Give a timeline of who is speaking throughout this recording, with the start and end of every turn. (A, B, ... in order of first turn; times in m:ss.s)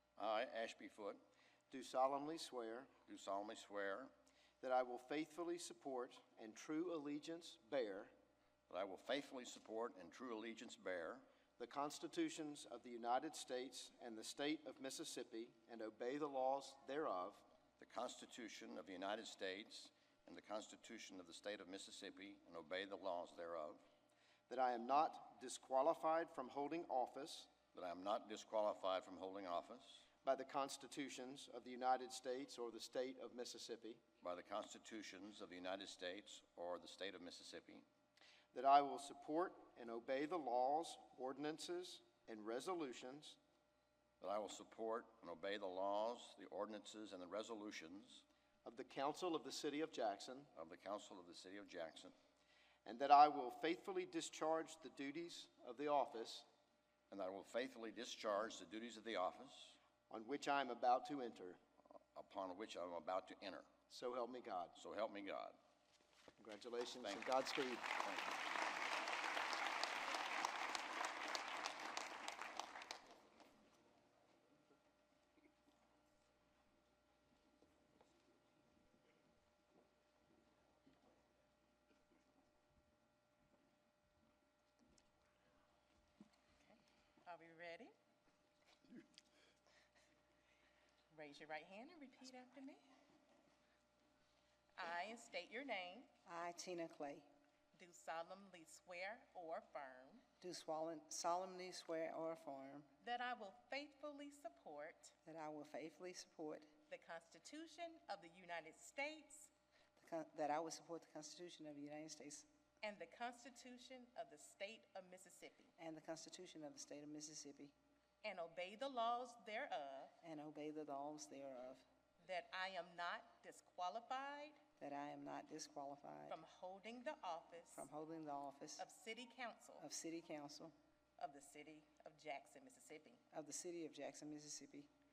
0:00.2-0:01.2 A
0:01.7-0:02.9 B
0:03.0-0:04.1 A
0:04.6-0:08.1 B
0:08.7-0:11.2 A
0:11.6-0:17.4 B
0:17.8-0:23.8 A
0:24.5-0:27.6 B
0:27.7-0:30.1 A
0:30.2-0:34.0 B
0:34.2-0:37.9 A
0:38.5-0:43.4 B
0:44.2-0:48.2 A
0:48.6-0:50.5 B
0:50.6-0:52.2 A
0:52.8-0:56.5 B
0:57.1-0:59.8 A
1:00.1-1:01.6 B
1:02.2-1:03.7 A
1:03.9-1:04.8 B
1:04.8-1:05.6 A
1:06.4-1:07.9 B
1:07.0-1:07.3 A
1:08.0-1:08.4 A
1:26.6-1:27.9 C
1:31.1-1:32.8 C
1:34.8-1:36.1 C
1:36.3-1:37.3 D
1:37.8-1:40.2 C
1:40.4-1:42.9 D
1:43.0-1:45.1 C
1:45.3-1:46.7 D
1:46.9-1:49.5 C
1:50.0-1:52.5 D
1:52.8-1:55.7 C
1:55.8-1:57.7 D
1:58.2-2:00.1 C
2:00.2-2:01.8 D
2:02.2-2:04.6 C
2:04.8-2:06.4 D
2:06.3-2:07.9 C
2:07.7-2:08.8 D
2:08.8-2:09.8 C
2:09.8-2:10.7 D
2:11.2-2:13.2 C
2:13.3-2:14.9 D